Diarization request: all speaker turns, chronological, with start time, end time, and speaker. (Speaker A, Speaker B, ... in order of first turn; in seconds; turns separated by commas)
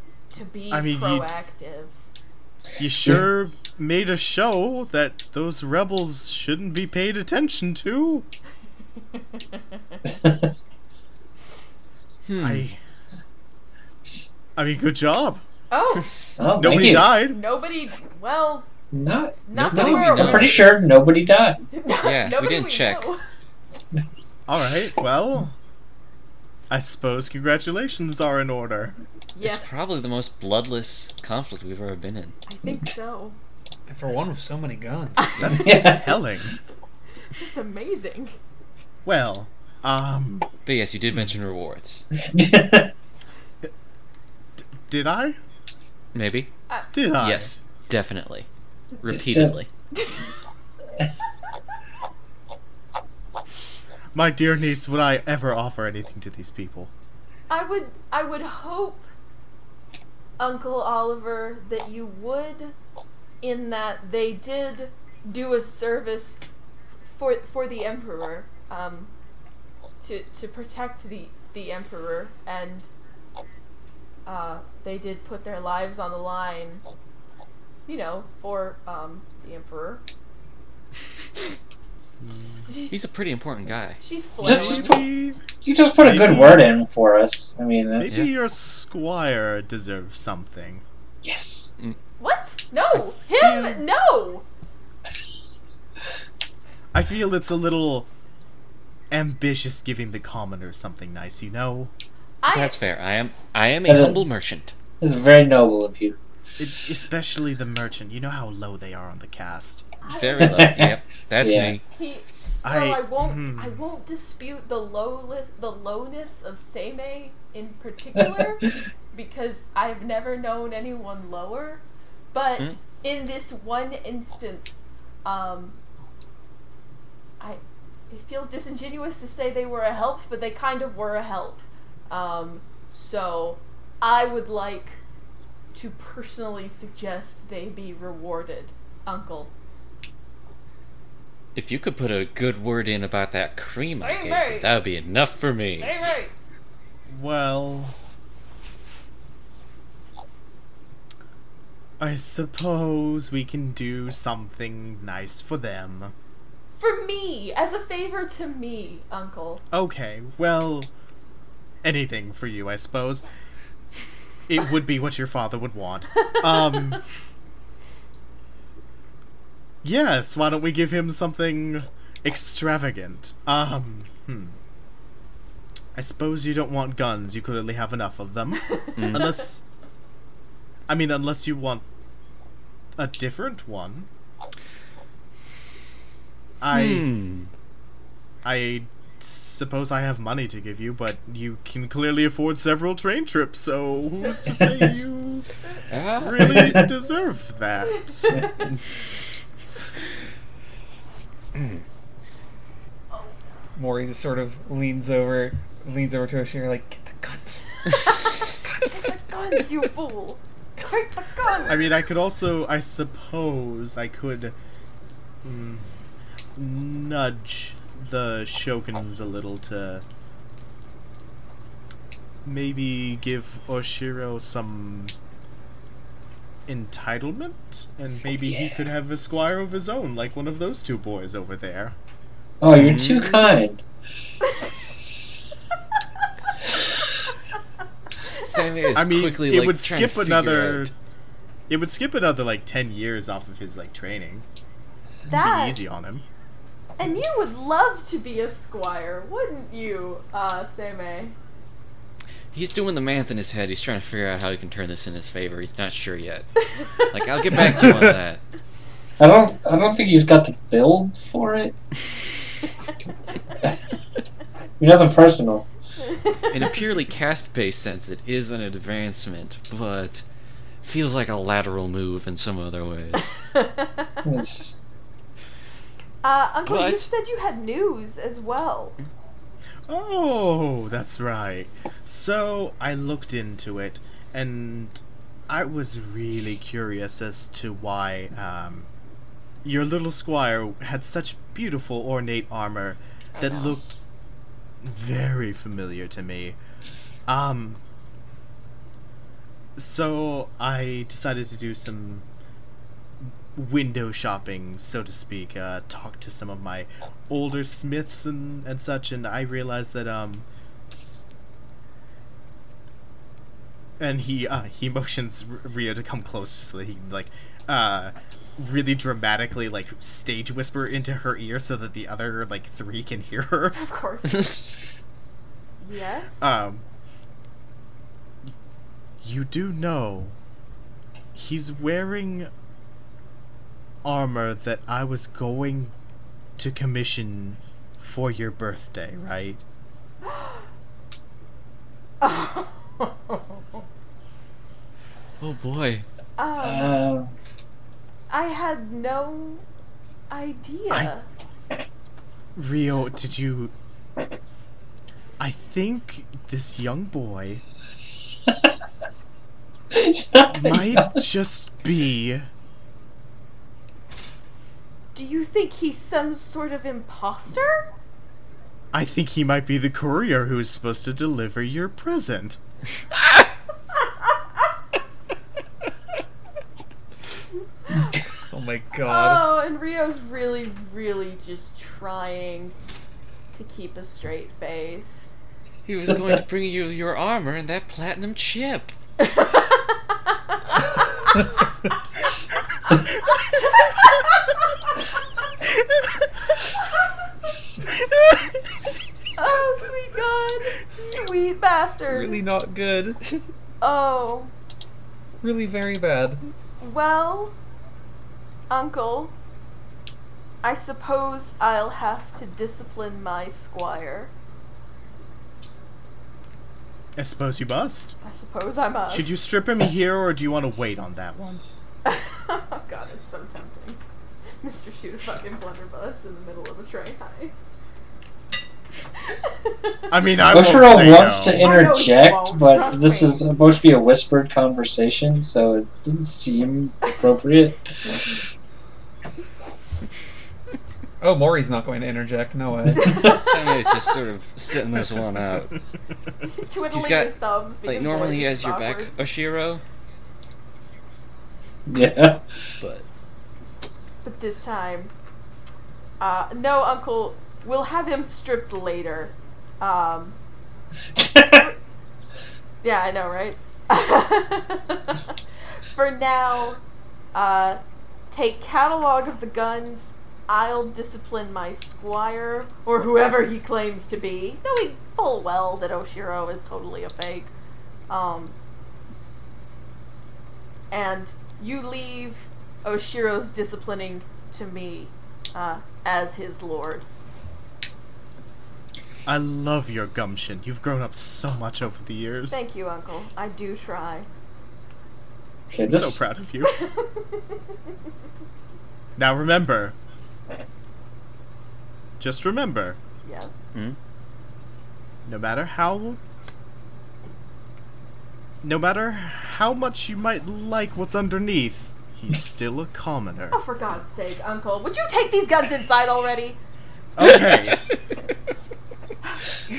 Speaker A: 0.3-1.9, Speaker B: 0.7-1.3, Speaker B: 2.8-8.3, Speaker A: 9.1-10.0, Speaker C: 10.1-10.5, Speaker D: 12.3-12.7, Speaker B: 12.4-12.8, Speaker B: 14.6-15.4, Speaker A: 15.7-16.3, Speaker D: 15.9-16.4, Speaker C: 16.4-17.2, Speaker B: 16.6-17.4, Speaker A: 17.2-18.7, Speaker C: 18.9-21.6, Speaker A: 19.5-20.7, Speaker D: 19.6-20.7, Speaker A: 21.7-23.2, Speaker D: 22.0-23.0, Speaker B: 24.5-25.5, Speaker B: 26.7-28.9, Speaker A: 29.4-29.7, Speaker D: 29.4-32.4, Speaker A: 32.5-33.4, Speaker E: 33.9-35.4, Speaker A: 35.2-36.0, Speaker B: 35.4-36.5, Speaker C: 35.5-36.4, Speaker A: 37.3-38.4, Speaker B: 39.0-40.5, Speaker D: 40.7-42.0, Speaker C: 42.2-42.9, Speaker B: 44.8-45.4, Speaker D: 46.1-46.5, Speaker B: 46.9-47.5, Speaker D: 47.2-48.5, Speaker D: 49.0-49.7, Speaker C: 49.1-49.6, Speaker A: 49.9-50.3, Speaker B: 54.1-56.9, Speaker A: 57.5-59.1, Speaker A: 60.4-62.7, Speaker A: 63.4-66.5, Speaker A: 67.1-69.1, Speaker A: 70.0-72.9, Speaker A: 74.3-76.8, Speaker A: 77.9-80.0, Speaker B: 82.2-82.6, Speaker A: 82.6-83.0, Speaker D: 82.9-84.0, Speaker A: 84.0-85.0, Speaker C: 84.4-85.0, Speaker B: 84.4-85.4, Speaker C: 85.6-88.3, Speaker B: 86.0-86.7, Speaker B: 88.0-90.8, Speaker C: 91.2-91.7, Speaker A: 92.2-94.5, Speaker B: 93.3-93.8, Speaker B: 96.9-98.1, Speaker B: 99.1-101.9, Speaker A: 102.4-102.8, Speaker D: 102.5-104.7, Speaker C: 103.9-104.2, Speaker C: 105.0-106.2, Speaker B: 106.6-109.9, Speaker A: 110.0-110.7, Speaker D: 110.1-111.8, Speaker C: 110.4-111.8, Speaker A: 111.9-121.8, Speaker B: 112.6-113.8, Speaker A: 122.3-125.8, Speaker A: 127.4-135.0, Speaker A: 135.7-139.5, Speaker D: 141.6-145.9, Speaker A: 144.0-144.7, Speaker A: 145.8-146.3, Speaker B: 147.1-147.9, Speaker B: 152.0-156.1, Speaker A: 156.8-159.6, Speaker B: 159.7-160.9, Speaker B: 161.8-163.2, Speaker B: 164.5-167.0, Speaker B: 169.8-174.6, Speaker B: 175.9-179.6, Speaker A: 178.9-179.2, Speaker D: 179.0-179.3, Speaker B: 180.9-181.8, Speaker B: 183.0-184.1, Speaker B: 186.6-187.1, Speaker D: 186.7-187.5, Speaker B: 188.4-195.6, Speaker D: 195.9-196.8, Speaker B: 196.2-198.4, Speaker A: 198.2-198.7, Speaker D: 201.6-201.8, Speaker E: 203.8-209.2, Speaker D: 208.0-208.6, Speaker A: 208.0-211.9, Speaker B: 211.7-214.6, Speaker B: 215.4-215.9, Speaker B: 216.6-220.0, Speaker B: 222.4-225.1, Speaker B: 226.7-231.9, Speaker C: 232.6-233.8, Speaker D: 232.7-233.5, Speaker D: 238.4-240.9, Speaker B: 238.9-240.9, Speaker B: 241.7-244.4, Speaker A: 245.3-245.8, Speaker B: 245.3-246.3, Speaker A: 247.0-251.4, Speaker D: 252.5-258.4, Speaker A: 256.8-257.1, Speaker C: 259.2-261.8, Speaker C: 264.8-265.7, Speaker A: 266.0-266.8, Speaker D: 266.5-270.2, Speaker D: 270.8-273.3, Speaker A: 273.4-274.2, Speaker C: 274.2-274.8, Speaker A: 276.2-279.0, Speaker D: 276.7-277.1, Speaker B: 279.9-288.9, Speaker B: 289.6-294.0, Speaker A: 293.4-293.8, Speaker B: 294.8-296.6, Speaker B: 297.3-297.8, Speaker B: 299.8-302.2, Speaker B: 303.2-310.5, Speaker B: 314.0-323.8, Speaker A: 323.7-324.6, Speaker D: 324.2-324.8, Speaker A: 325.8-326.4, Speaker B: 326.4-326.8, Speaker B: 329.2-330.4, Speaker B: 331.3-332.5, Speaker B: 334.0-335.9, Speaker B: 336.6-339.6, Speaker A: 340.2-340.7, Speaker A: 342.2-343.8, Speaker D: 345.4-346.1, Speaker A: 346.4-347.0, Speaker C: 346.6-347.3, Speaker A: 348.3-349.6, Speaker A: 350.3-351.3, Speaker B: 352.6-353.7, Speaker B: 355.4-357.6, Speaker C: 359.9-361.2, Speaker B: 360.5-362.5, Speaker A: 365.1-367.9, Speaker B: 368.9-372.6, Speaker A: 377.9-378.2, Speaker E: 378.5-379.5, Speaker A: 379.1-382.8, Speaker A: 383.5-385.3, Speaker D: 385.9-389.0, Speaker A: 389.2-389.9, Speaker A: 390.5-391.3, Speaker A: 393.4-394.7, Speaker A: 399.4-402.4, Speaker E: 402.1-403.4, Speaker A: 403.8-404.5, Speaker E: 405.4-406.4, Speaker A: 406.8-407.6, Speaker A: 408.7-409.4, Speaker A: 410.6-414.3, Speaker B: 417.2-418.2, Speaker A: 418.2-419.3, Speaker B: 419.1-421.6, Speaker A: 422.1-424.0, Speaker A: 424.6-427.7, Speaker A: 429.3-430.1, Speaker B: 430.1-431.8, Speaker C: 430.4-438.5, Speaker A: 431.4-433.5, Speaker E: 441.2-443.4, Speaker C: 443.0-443.4, Speaker D: 443.3-445.8, Speaker A: 446.4-449.1, Speaker D: 446.9-447.3, Speaker D: 447.9-449.8, Speaker C: 451.9-452.4, Speaker D: 452.8-453.1, Speaker A: 454.2-455.1, Speaker A: 456.2-460.4, Speaker C: 461.2-461.6, Speaker A: 461.4-461.8, Speaker A: 462.8-466.8, Speaker A: 467.3-477.5, Speaker A: 478.1-478.6, Speaker A: 480.9-487.1, Speaker B: 489.3-492.6, Speaker A: 492.5-494.3, Speaker C: 495.7-496.2, Speaker B: 495.9-496.8, Speaker A: 496.7-497.6, Speaker B: 499.2-500.0, Speaker B: 502.2-503.0, Speaker A: 503.2-503.6, Speaker B: 505.2-506.2, Speaker B: 508.6-513.6, Speaker A: 513.5-516.6, Speaker B: 517.2-517.8, Speaker D: 517.2-517.9